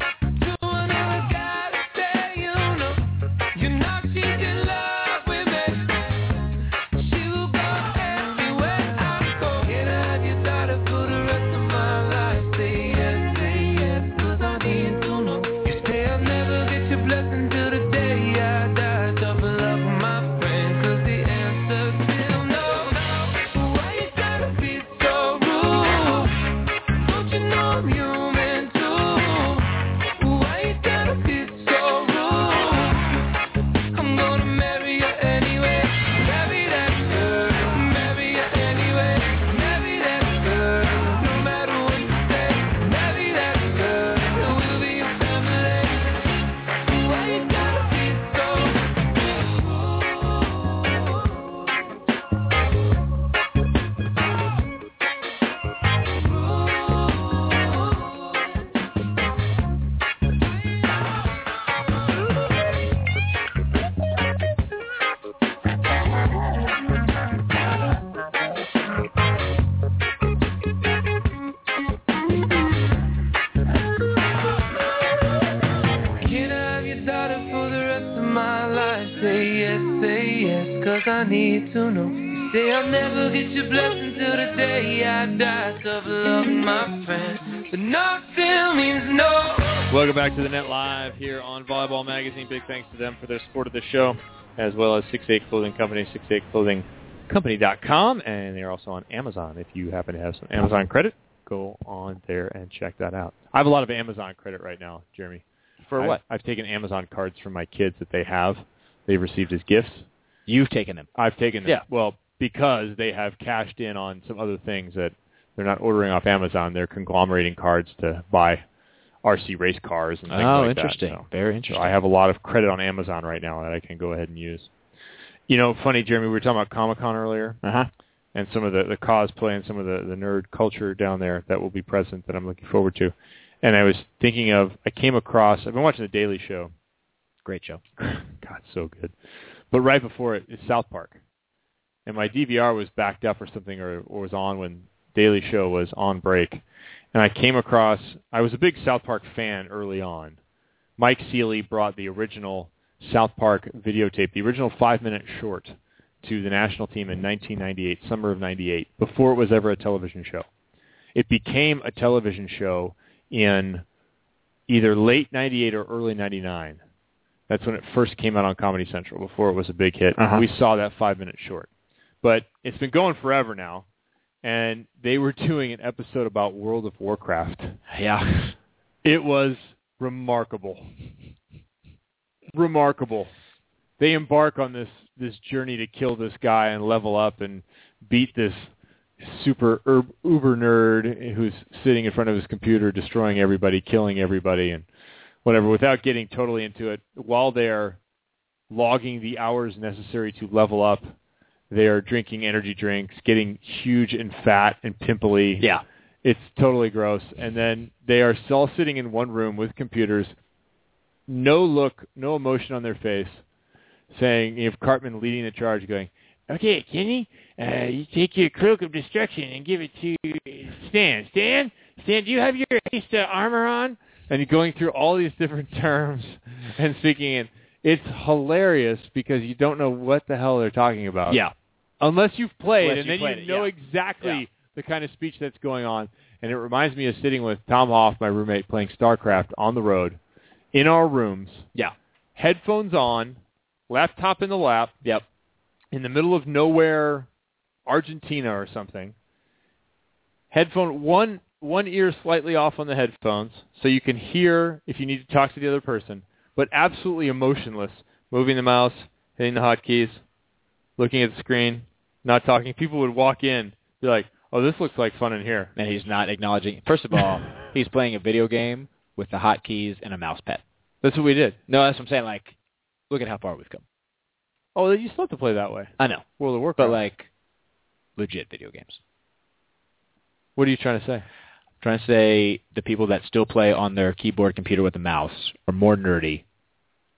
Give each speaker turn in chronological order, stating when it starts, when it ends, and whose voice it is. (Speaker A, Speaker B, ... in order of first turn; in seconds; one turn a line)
Speaker A: 0.4-6.1
Speaker A: 6.9-26.4
Speaker A: 27.0-33.2
Speaker A: 33.9-46.2
Speaker A: 46.9-51.0
Speaker A: 56.2-58.1
Speaker A: 76.2-89.9
Speaker B: 89.9-105.5
Speaker C: 105.8-106.2
Speaker B: 106.0-110.1
Speaker C: 110.5-111.1
Speaker B: 111.2-118.6
Speaker B: 119.2-124.7
Speaker C: 120.3-122.0
Speaker B: 125.5-127.6
Speaker C: 127.6-127.9
Speaker B: 128.3-136.7
Speaker C: 137.4-137.8
Speaker B: 138.0-139.2
Speaker B: 139.7-141.2
Speaker B: 142.1-150.4
Speaker B: 151.0-160.5
Speaker B: 161.1-163.9
Speaker B: 164.7-166.8
Speaker B: 167.5-171.7
Speaker C: 170.2-170.5
Speaker B: 172.2-173.9
Speaker B: 174.4-177.8
Speaker C: 177.9-178.6
Speaker B: 179.0-180.9
Speaker B: 182.5-183.3
Speaker B: 184.0-194.9
Speaker B: 195.4-198.0
Speaker B: 198.7-201.1
Speaker B: 201.7-205.7
Speaker C: 205.6-205.8
Speaker B: 206.2-210.3
Speaker B: 211.3-213.4
Speaker B: 214.1-231.4
Speaker C: 231.3-231.5
Speaker B: 232.0-240.2
Speaker C: 232.8-234.4
Speaker B: 240.7-241.7
Speaker B: 242.4-244.9
Speaker B: 245.9-247.3
Speaker B: 247.9-249.2
Speaker B: 250.5-260.2
Speaker B: 261.0-265.7
Speaker C: 265.8-270.6
Speaker B: 271.0-271.6
Speaker C: 271.7-272.6
Speaker C: 273.1-273.8
Speaker B: 274.8-277.0
Speaker C: 276.0-277.3
Speaker C: 278.2-279.0
Speaker B: 280.6-281.3
Speaker C: 281.8-286.4